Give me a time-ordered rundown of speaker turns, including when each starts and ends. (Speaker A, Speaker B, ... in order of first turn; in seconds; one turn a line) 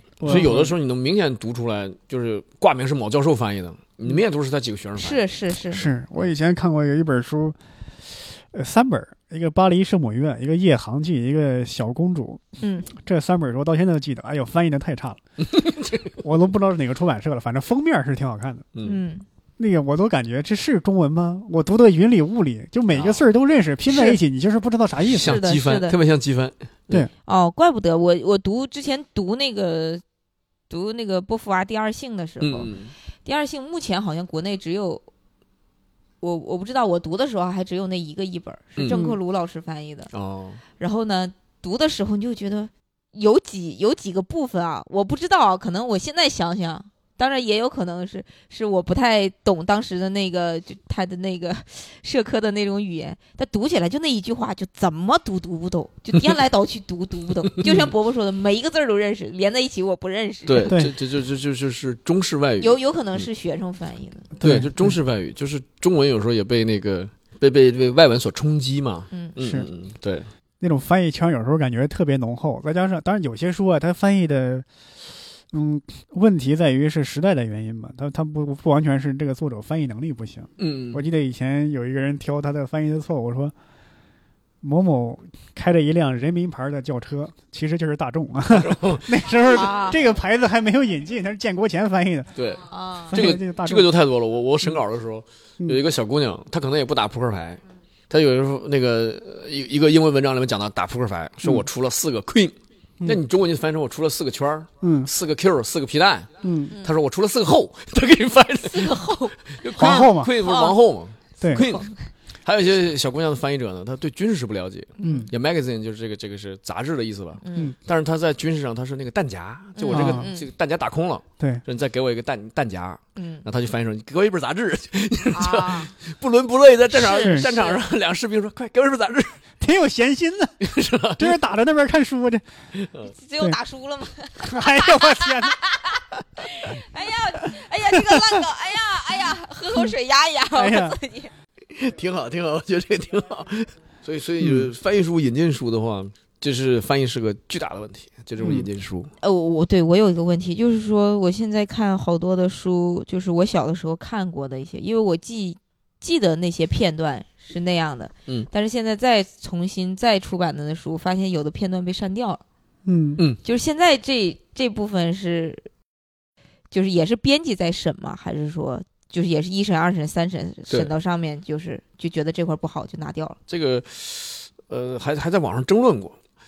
Speaker A: 0.2-0.8
Speaker B: 0.2-5.2
Speaker C: 5.0-5.9
Speaker A: 5.7-12.4
Speaker C: 12.6-12.9
Speaker A: 12.9-15.2
Speaker B: 15.4-16.1
Speaker A: 16.2-18.7
Speaker B: 18.7-19.0
Speaker C: 18.8-19.3
Speaker A: 19.6-25.4
Speaker B: 22.9-23.3
Speaker C: 23.9-24.2
Speaker B: 25.1-27.1
Speaker C: 25.1-26.0
Speaker C: 27.2-30.0
Speaker C: 30.7-32.7
Speaker B: 32.4-32.9
Speaker C: 33.2-35.0
Speaker C: 36.2-40.1
Speaker B: 38.8-39.1
Speaker A: 38.9-39.2
Speaker B: 40.1-40.6
Speaker C: 40.8-60.8
Speaker B: 57.5-57.9
Speaker B: 60.5-63.3
Speaker A: 60.7-61.0
Speaker C: 62.6-64.3
Speaker A: 64.4-65.0
Speaker B: 64.4-70.3
Speaker A: 69.4-69.7
Speaker A: 70.6-74.7
Speaker A: 75.5-83.5
Speaker B: 80.6-81.0
Speaker A: 84.6-92.3
Speaker B: 88.5-89.1
Speaker C: 89.5-90.0
Speaker B: 92.4-106.3
Speaker C: 92.7-93.2
Speaker A: 93.1-93.9
Speaker A: 104.8-105.1
Speaker A: 106.4-106.8
Speaker B: 106.8-109.0
Speaker C: 108.7-110.8
Speaker B: 109.6-111.9
Speaker A: 109.8-110.3
Speaker A: 111.4-111.7
Speaker C: 111.5-112.0
Speaker B: 112.5-129.4
Speaker C: 115.0-115.3
Speaker A: 115.0-115.3
Speaker C: 117.4-117.7
Speaker C: 119.8-120.5
Speaker A: 119.9-120.3
Speaker C: 123.2-123.5
Speaker C: 125.3-125.9
Speaker C: 126.9-127.8
Speaker A: 127.2-127.5
Speaker A: 129.6-130.6
Speaker B: 130.6-131.4
Speaker A: 131.2-132.4
Speaker B: 132.7-133.1
Speaker C: 133.1-141.3
Speaker A: 134.4-135.6
Speaker A: 138.2-138.4
Speaker A: 140.6-141.0
Speaker B: 141.8-149.1
Speaker A: 144.4-144.7
Speaker A: 148.4-148.7
Speaker C: 149.2-162.4
Speaker A: 162.8-163.2
Speaker C: 163.4-165.7
Speaker C: 166.7-173.4
Speaker B: 173.5-176.2